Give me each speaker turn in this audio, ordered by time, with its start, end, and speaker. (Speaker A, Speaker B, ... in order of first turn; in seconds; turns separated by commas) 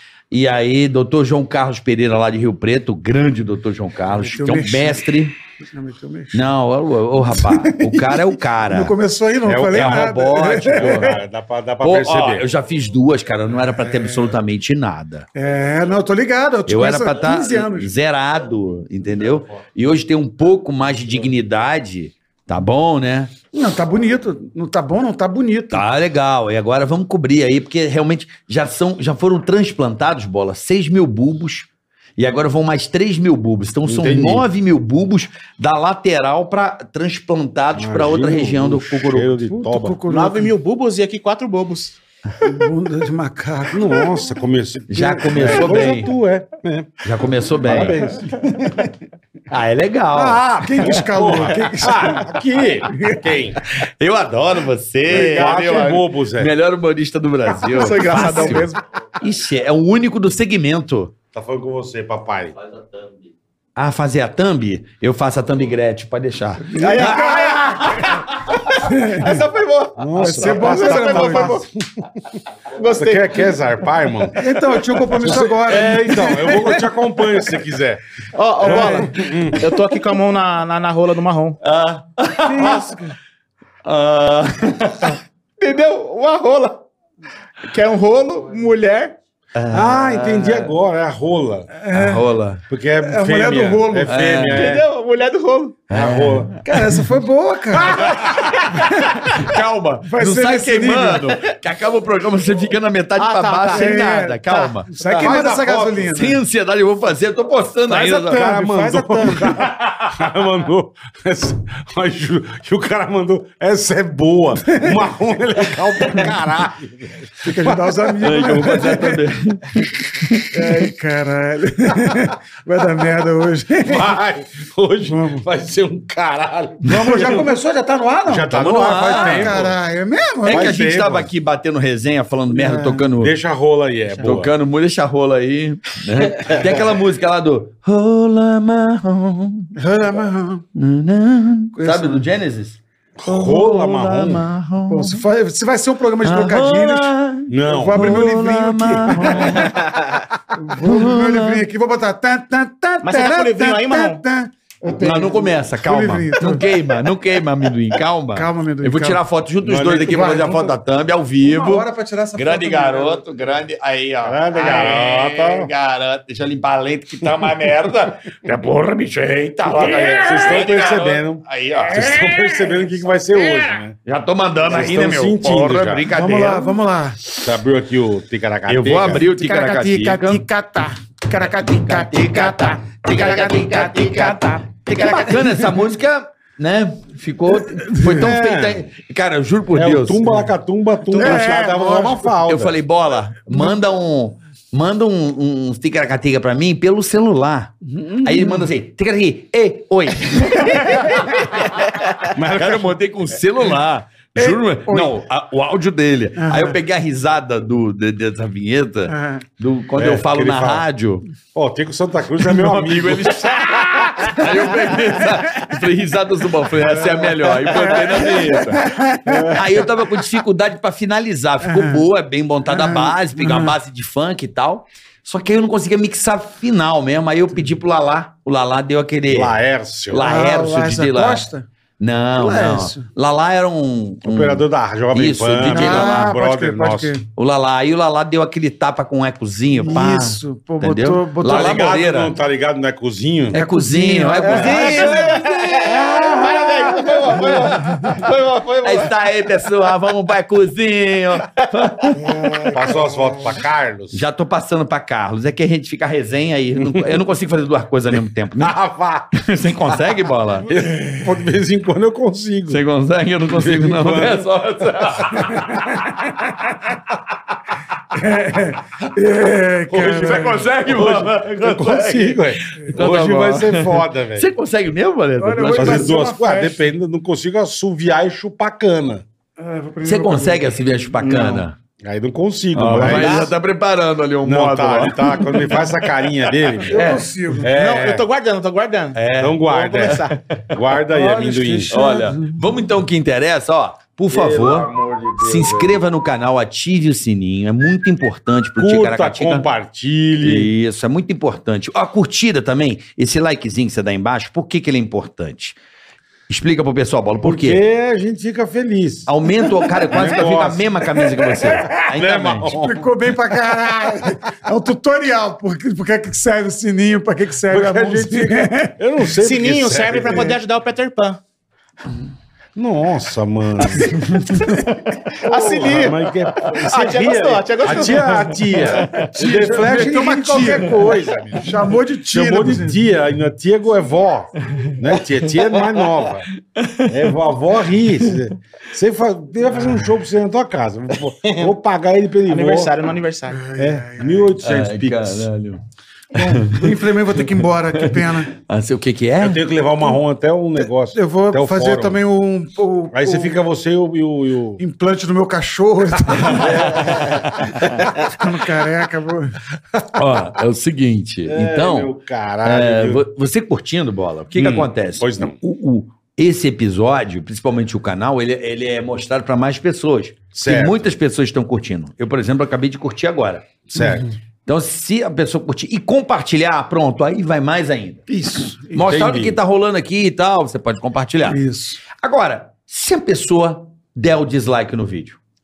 Speaker A: 0.3-5.3, Speaker B: 4.1-6.5, Speaker A: 6.3-8.9, Speaker B: 7.2-11.2, Speaker C: 9.4-12.5, Speaker A: 9.7-11.2, Speaker A: 11.8-15.3, Speaker C: 13.8-14.3, Speaker B: 15.4-17.9, Speaker A: 16.7-23.3, Speaker B: 23.5-25.9, Speaker A: 25.7-39.4, Speaker C: 33.9-34.5, Speaker C: 37.8-40.0, Speaker B: 39.5-40.5, Speaker D: 40.1-42.0, Speaker B: 42.4-44.4, Speaker C: 43.7-48.5, Speaker A: 44.9-46.1, Speaker B: 45.6-45.9, Speaker A: 47.0-48.0, Speaker B: 48.3-48.9, Speaker A: 49.5-50.5, Speaker C: 50.2-53.6, Speaker B: 50.2-52.3, Speaker B: 52.9-53.2, Speaker A: 53.8-58.7, Speaker C: 55.0-56.5, Speaker D: 57.5-58.8, Speaker A: 59.2-61.1, Speaker C: 61.3-62.6, Speaker A: 63.8-67.1, Speaker D: 66.8-71.7, Speaker C: 66.8-67.2, Speaker B: 66.8-68.0, Speaker B: 68.8-69.4, Speaker C: 70.0-71.7, Speaker B: 70.2-71.6, Speaker D: 72.7-73.5, Speaker C: 72.9-74.5, Speaker B: 74.4-76.9, Speaker C: 75.1-78.0, Speaker D: 78.3-81.6, Speaker C: 78.6-79.6, Speaker B: 78.6-79.1, Speaker A: 81.6-82.8, Speaker B: 82.4-83.2, Speaker D: 82.6-82.9, Speaker A: 83.8-85.2, Speaker D: 85.6-86.8, Speaker D: 87.6-89.1, Speaker A: 89.5-90.7, Speaker C: 89.7-91.7, Speaker B: 91.8-92.2, Speaker A: 91.9-92.6, Speaker C: 92.7-94.9, Speaker B: 93.0-94.1, Speaker A: 94.1-94.7, Speaker D: 94.5-95.8, Speaker C: 95.9-96.6, Speaker A: 95.9-96.6, Speaker B: 96.6-99.5, Speaker A: 97.8-108.4, Speaker B: 100.0-101.4, Speaker D: 103.2-104.0, Speaker B: 103.7-106.4, Speaker C: 105.0-106.0, Speaker B: 107.9-109.7, Speaker C: 108.2-117.7, Speaker A: 109.8-110.1, Speaker B: 114.7-115.0, Speaker B: 117.4-119.2, Speaker A: 118.2-120.6, Speaker B: 120.5-124.2, Speaker C: 123.8-127.5, Speaker B: 125.0-125.5, Speaker B: 126.8-130.7, Speaker C: 128.2-129.8, Speaker A: 128.5-129.6, Speaker C: 130.4-131.3, Speaker A: 130.4-133.3, Speaker B: 132.5-133.1, Speaker C: 133.2-134.5, Speaker A: 134.2-139.7, Speaker C: 136.4-136.8, Speaker B: 139.8-140.6, Speaker A: 140.8-145.2, Speaker B: 141.8-142.2, Speaker C: 143.2-144.4, Speaker B: 144.9-149.9, Speaker A: 146.2-149.7, Speaker C: 147.5-148.2, Speaker B: 150.5-156.6, Speaker A: 150.8-151.6, Speaker D: 153.0-154.2, Speaker A: 154.9-172.0, Speaker B: 158.3-159.2, Speaker C: 159.6-160.6, Speaker B: 160.0-160.7, Speaker B: 161.4-163.5, Speaker C: 164.2-165.7, Speaker C: 169.7-173.9, Speaker B: 171.8-172.9, Speaker A: 174.0-176.8, Speaker C: 174.6-176.1, Speaker B: 176.1-177.2, Speaker C: 177.4-179.3, Speaker A: 178.7-180.4, Speaker B: 179.1-184.6, Speaker A: 181.5-190.5, Speaker D: 183.1-185.6, Speaker B: 187.9-188.2, Speaker C: 188.1-188.9, Speaker C: 189.7-192.8, Speaker B: 191.1-192.3, Speaker D: 191.1-191.4, Speaker A: 192.5-201.7, Speaker B: 197.8-198.7, Speaker B: 200.5-201.2, Speaker C: 202.2-203.0, Speaker A: 202.5-211.3, Speaker B: 204.4-205.2, Speaker B: 206.4-206.8, Speaker B: 209.1-209.4, Speaker C: 209.9-210.9, Speaker C: 211.5-213.6, Speaker A: 212.4-218.8, Speaker B: 213.7-215.3, Speaker B: 216.8-219.6, Speaker C: 218.2-218.5, Speaker C: 219.2-219.6, Speaker A: 219.5-231.5, Speaker B: 221.6-222.1, Speaker B: 222.7-223.8, Speaker C: 229.3-230.3, Speaker B: 230.2-231.7, Speaker A: 232.0-236.3, Speaker B: 232.3-233.1, Speaker C: 234.2-237.2, Speaker B: 235.6-237.2, Speaker A: 237.4-242.3, Speaker B: 239.8-241.9, Speaker C: 241.4-243.6, Speaker A: 243.5-246.0, Speaker B: 243.5-245.4, Speaker D: 244.4-249.1, Speaker B: 246.0-246.8, Speaker A: 248.8-252.2, Speaker B: 252.1-253.6, Speaker C: 252.7-254.2, Speaker A: 254.1-258.8, Speaker C: 258.6-260.0, Speaker A: 259.3-260.7, Speaker C: 260.7-262.8, Speaker A: 262.7-265.6, Speaker C: 263.5-265.2, Speaker B: 265.5-266.1, Speaker B: 268.1-270.6, Speaker C: 269.9-274.5, Speaker A: 270.0-276.1, Speaker B: 275.4-276.9, Speaker C: 275.7-279.2, Speaker B: 279.6-281.6, Speaker A: 280.0-281.8, Speaker C: 282.0-283.6, Speaker A: 282.7-287.2, Speaker C: 284.4-288.2, Speaker B: 286.9-287.7, Speaker D: 287.7-290.4, Speaker A: 289.1-290.1, Speaker C: 289.4-291.9, Speaker B: 291.1-292.6, Speaker A: 291.9-299.7, Speaker C: 294.3-296.0, Speaker C: 298.8-300.7, Speaker A: 300.4-305.8, Speaker A: 306.5-307.8, Speaker C: 307.4-309.3, Speaker A: 309.2-312.8, Speaker C: 310.1-311.1, Speaker B: 311.5-311.9, Speaker C: 311.9-313.1, Speaker B: 312.7-318.9, Speaker C: 317.7-320.5, Speaker D: 319.4-321.4, Speaker C: 322.8-324.5, Speaker B: 324.5-325.9, Speaker D: 325.4-328.6, Speaker C: 325.7-331.7, Speaker A: 329.0-329.5, Speaker B: 329.1-333.0, Speaker C: 332.3-336.4, Speaker A: 336.8-337.3, Speaker C: 337.1-342.9, Speaker D: 341.4-341.7, Speaker D: 342.5-343.6, Speaker B: 343.5-344.5, Speaker C: 343.8-345.5, Speaker A: 344.6-345.8, Speaker A: 346.4-346.9, Speaker B: 346.4-348.5, Speaker A: 347.9-349.6, Speaker C: 349.4-352.2, Speaker B: 351.1-353.6, Speaker C: 353.1-354.8, Speaker B: 354.8-357.7, Speaker C: 356.4-357.6, Speaker A: 356.5-357.9, Speaker B: 358.2-359.6, Speaker A: 360.1-362.1, Speaker C: 361.5-363.2, Speaker A: 362.6-373.8, Speaker C: 364.6-365.6, Speaker C: 370.5-371.1, Speaker C: 373.9-374.3, Speaker B: 373.9-374.2, Speaker A: 374.6-378.2, Speaker B: 378.3-379.2, Speaker A: 378.9-381.6, Speaker C: 379.0-379.6, Speaker B: 381.4-382.0, Speaker A: 382.2-385.4